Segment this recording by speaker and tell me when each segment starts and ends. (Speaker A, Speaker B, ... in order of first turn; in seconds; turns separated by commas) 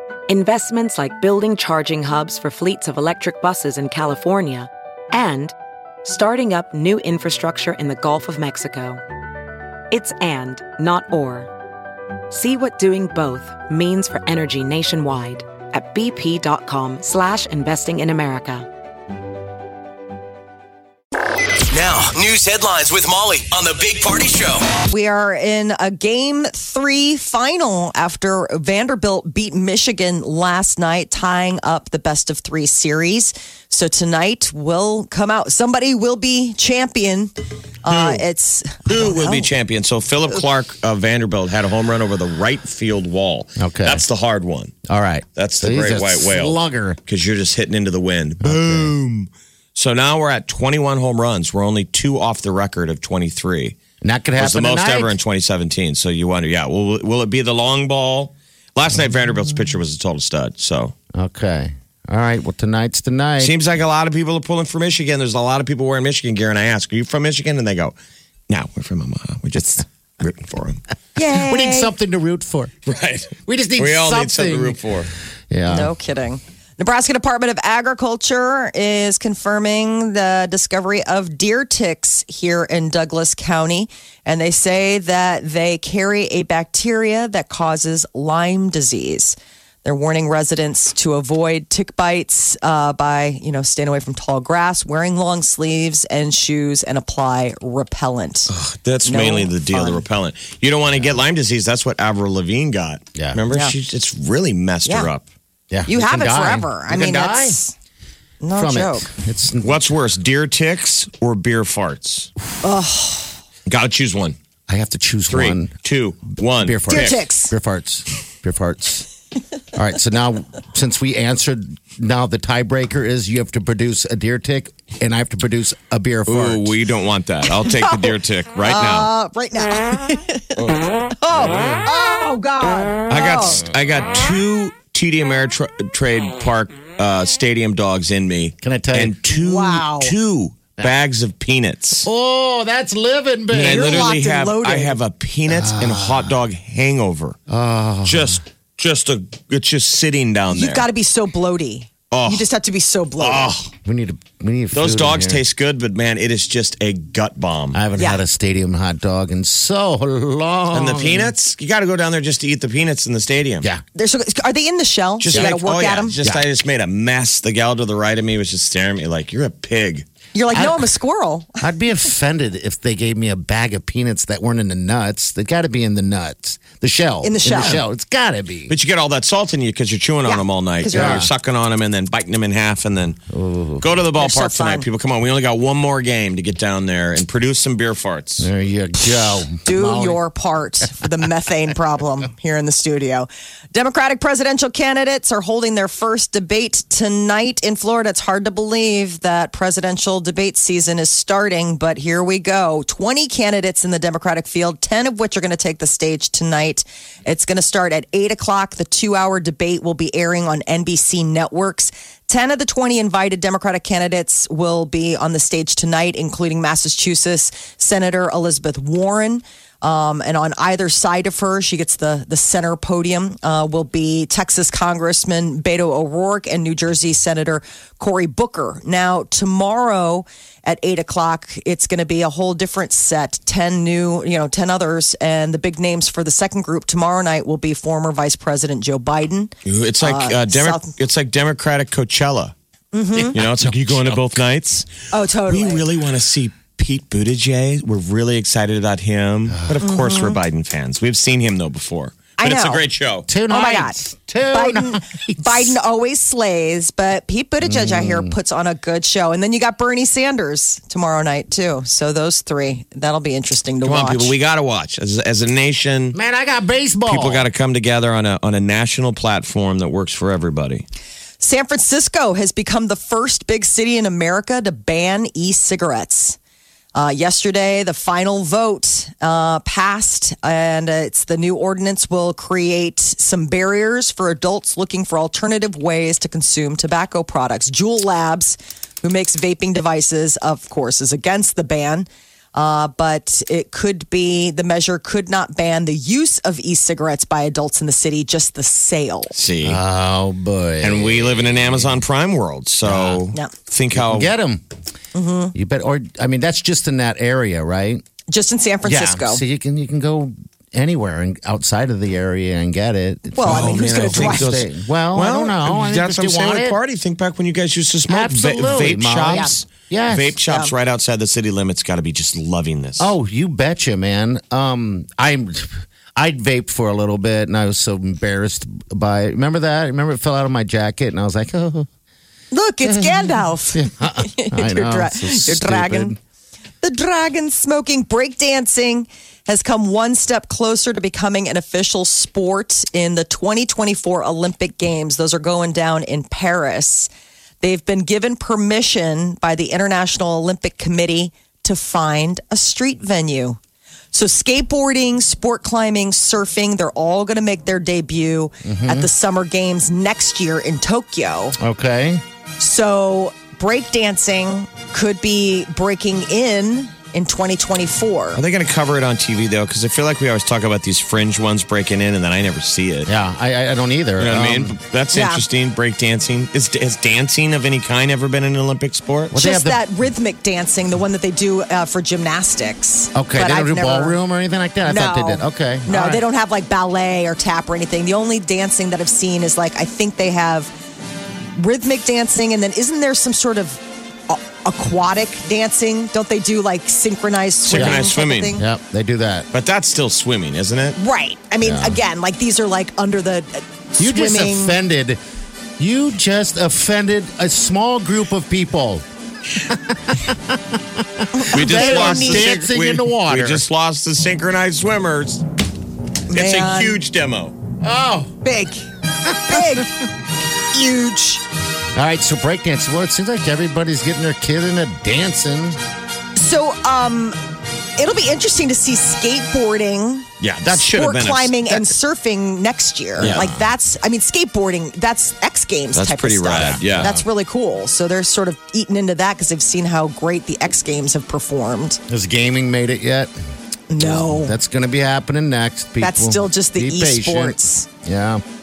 Speaker A: 0.3-9.0, Speaker A: 9.9-11.5, Speaker A: 12.3-18.7, Speaker B: 21.7-24.7, Speaker C: 24.9-37.3, Speaker C: 37.8-39.5, Speaker D: 37.9-38.2, Speaker D: 38.9-44.7, Speaker E: 43.6-44.0, Speaker E: 44.9-47.0, Speaker D: 45.4-53.8, Speaker E: 48.4-48.9, Speaker E: 54.0-55.1, Speaker D: 54.4-61.0, Speaker E: 61.1-63.6, Speaker D: 63.4-68.0, Speaker D: 68.5-70.8, Speaker C: 71.2-71.9, Speaker E: 71.3-72.7, Speaker D: 72.9-75.1, Speaker E: 73.5-74.8, Speaker E: 75.5-75.9, Speaker C: 75.7-98.5, Speaker D: 98.5-105.2, Speaker C: 99.0-100.0, Speaker C: 104.8-105.1, Speaker E: 105.7-107.6, Speaker C: 105.9-107.7, Speaker C: 108.4-109.1, Speaker E: 108.5-109.8, Speaker D: 109.6-112.3, Speaker C: 112.6-113.3, Speaker D: 113.7-114.4, Speaker E: 114.7-115.7, Speaker D: 115.3-117.2, Speaker E: 116.6-119.1, Speaker C: 116.9-117.5, Speaker E: 119.7-126.8, Speaker D: 126.3-129.1, Speaker C: 127.5-133.6, Speaker D: 133.1-142.1, Speaker E: 138.6-139.2, Speaker C: 139.3-140.1, Speaker E: 142.0-144.2, Speaker D: 143.5-147.4, Speaker C: 143.7-145.0, Speaker E: 145.5-146.3, Speaker E: 147.5-148.4, Speaker D: 148.1-150.9, Speaker C: 150.5-153.6, Speaker D: 152.1-152.5, Speaker D: 153.2-153.7, Speaker E: 153.7-155.4, Speaker D: 154.7-157.8, Speaker E: 157.7-161.3, Speaker C: 158.0-158.2, Speaker D: 160.7-163.7, Speaker C: 163.9-166.2, Speaker D: 165.2-170.1, Speaker C: 170.3-171.6, Speaker E: 170.5-170.9, Speaker E: 171.6-178.7, Speaker C: 177.2-177.8, Speaker D: 178.7-183.2, Speaker C: 180.2-181.3, Speaker E: 180.9-181.3, Speaker E: 183.3-184.0, Speaker D: 183.8-188.5, Speaker C: 184.2-184.9, Speaker E: 188.4-190.2, Speaker C: 189.6-240.9, Speaker D: 239.7-242.5, Speaker C: 242.9-243.4, Speaker E: 243.2-244.2, Speaker D: 243.3-244.9, Speaker C: 245.1-245.8, Speaker D: 245.5-253.3, Speaker E: 249.5-249.8, Speaker C: 249.8-250.4, Speaker C: 252.4-252.8, Speaker E: 253.3-255.8, Speaker C: 253.5-254.0, Speaker C: 254.5-264.3, Speaker E: 257.6-258.3, Speaker D: 263.8-266.2, Speaker E: 266.1-267.5, Speaker D: 267.1-270.9, Speaker C: 271.4-276.4, Speaker C: 276.9-299.4, Speaker D: 299.3-299.8, Speaker E: 299.6-302.0, Speaker D: 300.8-304.3, Speaker E: 302.8-303.2, Speaker E: 303.9-304.6, Speaker C: 305.1-305.5, Speaker E: 305.5-308.0, Speaker C: 308.3-309.4, Speaker E: 308.8-316.8, Speaker C: 313.4-314.5, Speaker D: 313.4-323.1, Speaker E: 318.1-320.4, Speaker C: 319.3-319.6, Speaker C: 320.5-320.7, Speaker E: 323.0-331.9, Speaker C: 332.5-336.1, Speaker E: 332.9-336.2, Speaker C: 336.8-347.1, Speaker C: 347.6-353.6, Speaker C: 354.1-361.6, Speaker E: 358.6-359.1, Speaker E: 361.6-362.2, Speaker C: 362.6-368.4, Speaker D: 368.4-373.1, Speaker E: 373.1-374.8, Speaker D: 374.2-379.4, Speaker C: 375.1-375.4, Speaker E: 379.3-379.8, Speaker C: 379.4-384.2, Speaker E: 383.1-386.2, Speaker C: 384.9-390.7, Speaker C: 391.4-398.6, Speaker D: 397.7-398.5, Speaker E: 397.7-399.5, Speaker D: 399.5-401.0, Speaker C: 401.0-404.8, Speaker E: 401.6-402.0, Speaker E: 404.0-405.2, Speaker E: 405.8-409.0, Speaker E: 409.6-413.6, Speaker C: 411.3-412.6, Speaker D: 411.5-415.4, Speaker C: 416.3-417.0, Speaker D: 416.3-417.6, Speaker E: 417.8-418.4, Speaker C: 418.4-420.0, Speaker E: 419.5-419.8, Speaker C: 420.7-421.4, Speaker E: 421.9-425.8, Speaker C: 426.4-427.4, Speaker C: 428.0-442.0, Speaker D: 430.4-431.9, Speaker D: 433.2-433.6, Speaker E: 433.2-433.5, Speaker D: 435.9-437.1, Speaker E: 436.8-437.2, Speaker E: 442.1-443.3, Speaker C: 443.9-444.5, Speaker E: 444.0-448.4, Speaker C: 446.0-447.9